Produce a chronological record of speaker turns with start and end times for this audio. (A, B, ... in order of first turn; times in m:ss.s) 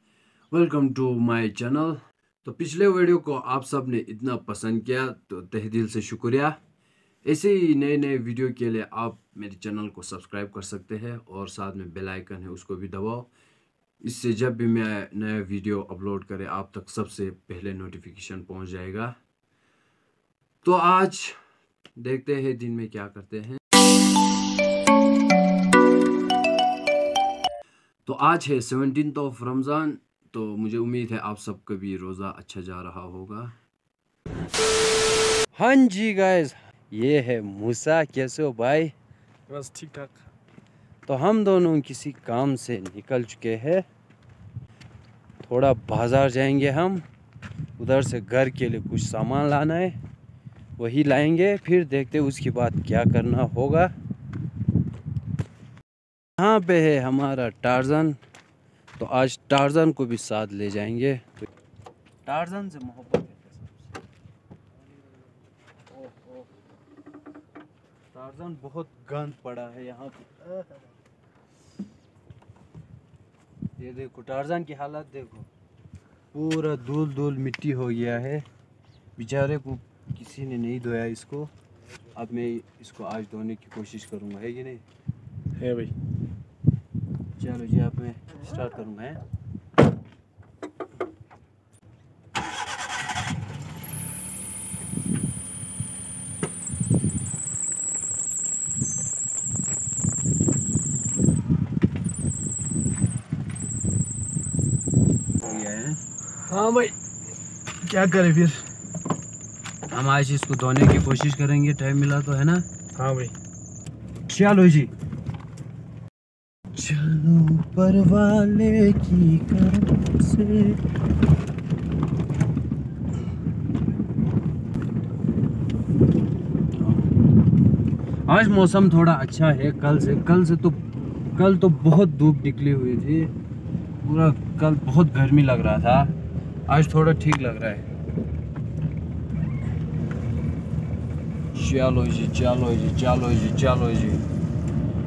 0:00.5-0:06.6 A
0:07.2-0:13.3 A
0:14.0-0:19.1 A
0:20.6-0:21.4 A
0:22.0-0:23.6 A
0:28.0-0:33.5 A
0:35.5-0:38.9 A
0:39.5-0:40.2 B
0:41.1-0:43.8 A
0:45.4-0:47.0 A
0:47.8-0:50.0 A
0:50.8-0:53.9 A
0:56.4-0:58.2 A
0:59.0-1:01.3 A
1:02.2-1:03.9 A
1:05.9-1:06.5 A
1:08.1-1:10.8 A
1:13.8-1:15.5 A
1:16.3-1:18.4 A
1:19.2-1:21.5 A
1:22.1-1:24.8 A
1:25.6-1:25.9 B
1:27.4-1:29.2 A
1:45.4-1:46.0 A
1:46.5-1:46.9 B
1:47.8-1:48.6 B
1:49.9-1:52.6 A
1:53.0-1:53.3 B
1:54.3-1:54.9 A
1:56.7-2:00.8 A
2:06.8-2:07.1 A
2:08.3-2:10.8 A
2:11.4-2:13.3 A
2:14.0-2:16.1 A
2:16.7-2:17.8 A
2:21.5-2:24.2 A